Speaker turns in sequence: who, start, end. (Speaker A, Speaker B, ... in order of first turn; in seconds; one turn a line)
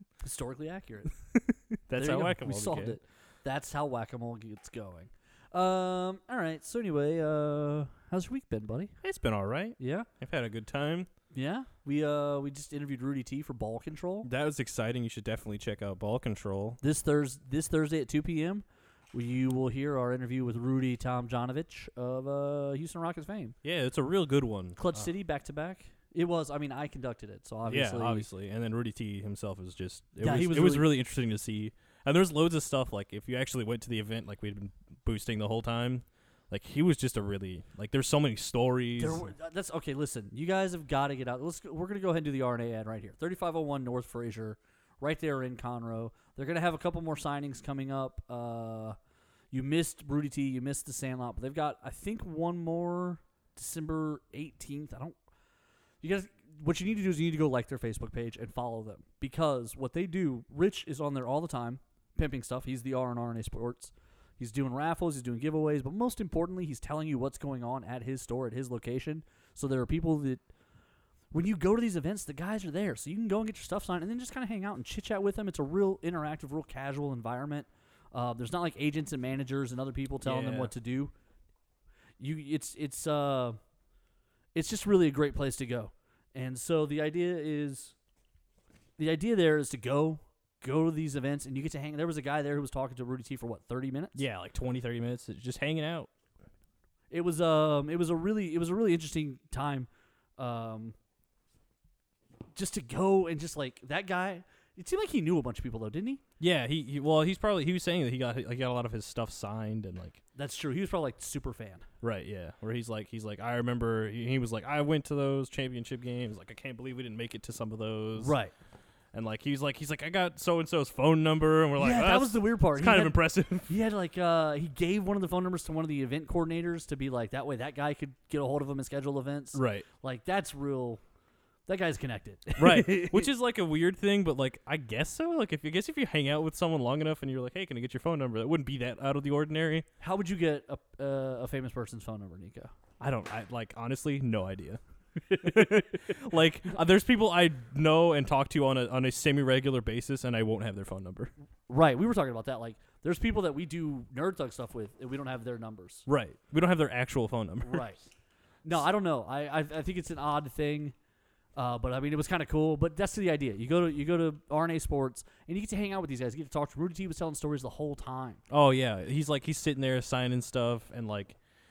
Speaker A: 0.2-1.1
Speaker B: 1.4-3.0
Speaker A: 1.9-8.9
Speaker B: 9.0-11.1
Speaker A: 9.8-10.1
Speaker A: 11.3-14.3
Speaker B: 14.2-16.8
Speaker A: 16.8-23.6
Speaker B: 23.6-25.1
Speaker A: 24.8-28.3
Speaker B: 27.6-39.3
Speaker A: 30.2-30.9
Speaker A: 39.0-49.0
Speaker A: 49.5-55.2
Speaker A: 56.0-70.4
Speaker A: 71.3-81.1
Speaker B: 80.2-80.7
Speaker A: 82.2-83.6
Speaker A: 84.5-87.9
Speaker A: 89.0-94.2
Speaker B: 94.1-96.1
Speaker A: 97.1-100.9
Speaker A: 102.5-106.2
Speaker B: 106.4-110.2
Speaker A: 110.3-111.8
Speaker B: 112.0-118.3
Speaker A: 118.2-118.5
Speaker B: 119.1-123.7
Speaker A: 121.8-131.0
Speaker B: 129.5-129.9
Speaker A: 131.7-133.3
Speaker B: 132.6-139.9
Speaker A: 140.0-142.7
Speaker B: 143.0-151.3
Speaker A: 151.7-156.1
Speaker B: 156.1-157.9
Speaker A: 157.6-158.0
Speaker A: 158.6-160.9
Speaker A: 161.6-168.4
Speaker B: 168.5-171.4